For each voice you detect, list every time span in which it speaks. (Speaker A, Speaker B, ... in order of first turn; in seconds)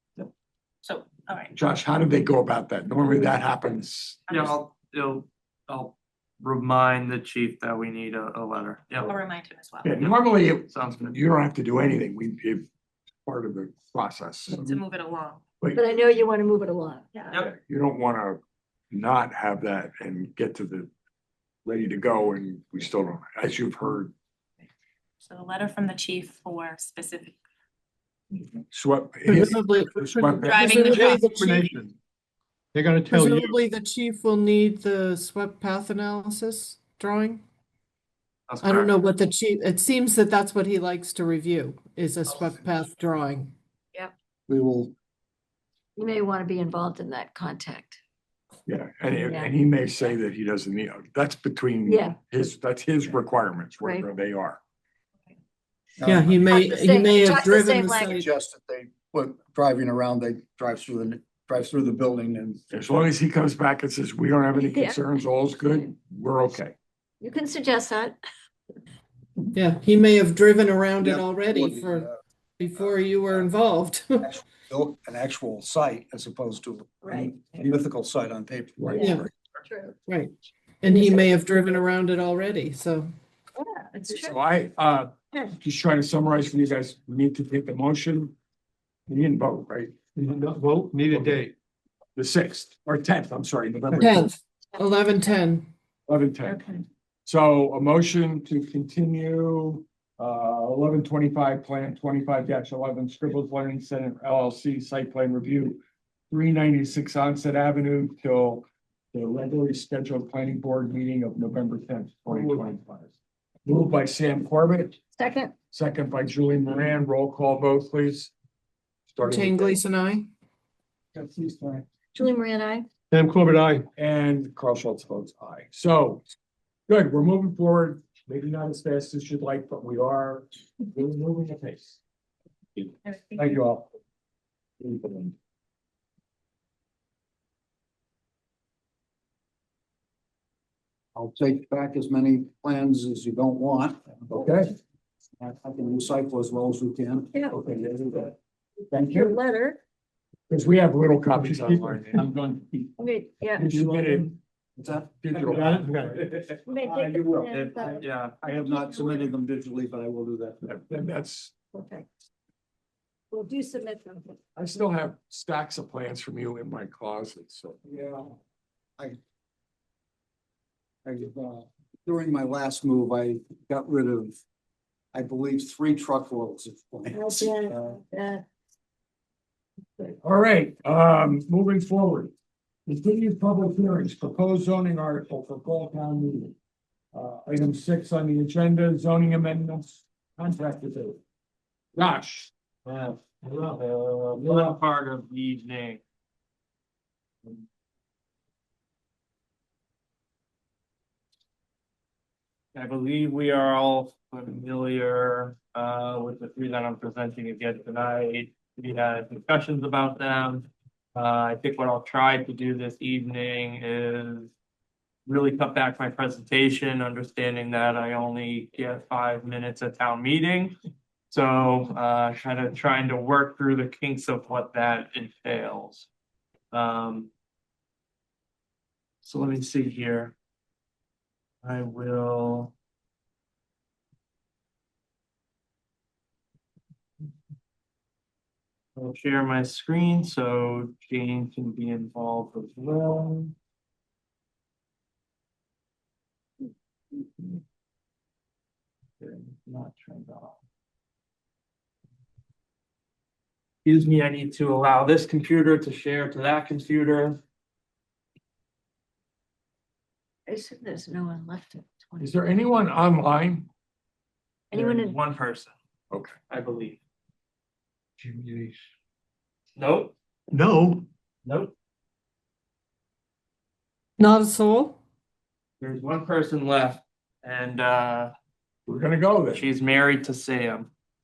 Speaker A: 0.8-1.5, 9.0-10.1, 14.5-15.4, 17.1-17.5, 25.2-27.4, 30.4-31.4, 133.1-133.6
Speaker B: 1.6-4.2, 9.8-12.7, 13.2-14.8, 17.4-18.4, 18.9-20.9, 21.6-24.1, 28.7-30.6, 48.7-54.6, 62.7-66.8, 78.8-79.3, 84.0-88.4, 89.1-90.0, 92.2-94.2, 96.1-96.7, 97.3-113.1, 113.7-115.0, 115.7-118.3, 119.1-119.8, 124.0-126.2, 126.9-132.0, 133.4-133.9, 134.8-135.3, 144.3-144.7, 150.5-152.5, 153.6-154.4, 155.1-156.1, 160.7-161.5, 164.6-167.8, 180.2-182.3, 182.9-186.5, 187.1-191.2, 192.0-192.5, 194.4-194.7, 262.2-263.7, 278.9-279.6
Speaker C: 4.3-9.1, 10.0-11.2, 38.5-39.0, 157.5-158.3, 192.8-196.0, 202.7-214.5, 215.3-220.8, 221.3-226.1, 226.7-227.3, 229.2-230.3, 231.6-232.7, 239.0-243.6, 249.2-250.6, 253.8-257.4, 264.7-265.8, 266.5-267.0, 269.8-270.1, 271.4-271.7, 275.8-278.3, 279.5-280.9
Speaker D: 15.7-17.0, 46.0-48.0, 49.1-49.5, 51.9-52.2, 53.8-54.1, 56.5-58.1, 64.5-65.2, 67.2-68.2, 77.0-77.4, 79.0-79.9, 83.6-84.4, 96.5-96.8, 115.2-115.5, 122.2-122.9, 149.1-149.8, 153.0-153.7, 156.7-159.3, 161.7-162.1, 163.3-164.4, 260.5-262.4, 264.7-265.2
Speaker E: 29.3-31.7, 33.0-37.4, 38.6-43.5, 56.0-58.3, 69.5-74.3, 78.9-79.3, 80.1-83.1, 94.0-95.7, 119.2-120.3, 274.2-275.0
Speaker F: 30.7-31.9, 32.7-33.6, 90.2-91.5, 112.3-112.6, 123.1-123.9, 151.3-152.0, 155.4-156.2, 268.2-268.8, 270.5-271.0
Speaker G: 44.5-44.9, 56.0-56.6, 58.1-62.7, 71.0-72.1, 74.2-79.1, 121.2-121.8, 141.2-144.7, 145.4-148.2, 148.9-149.3, 153.8-155.1, 158.0-160.8, 171.1-174.4, 175.1-178.4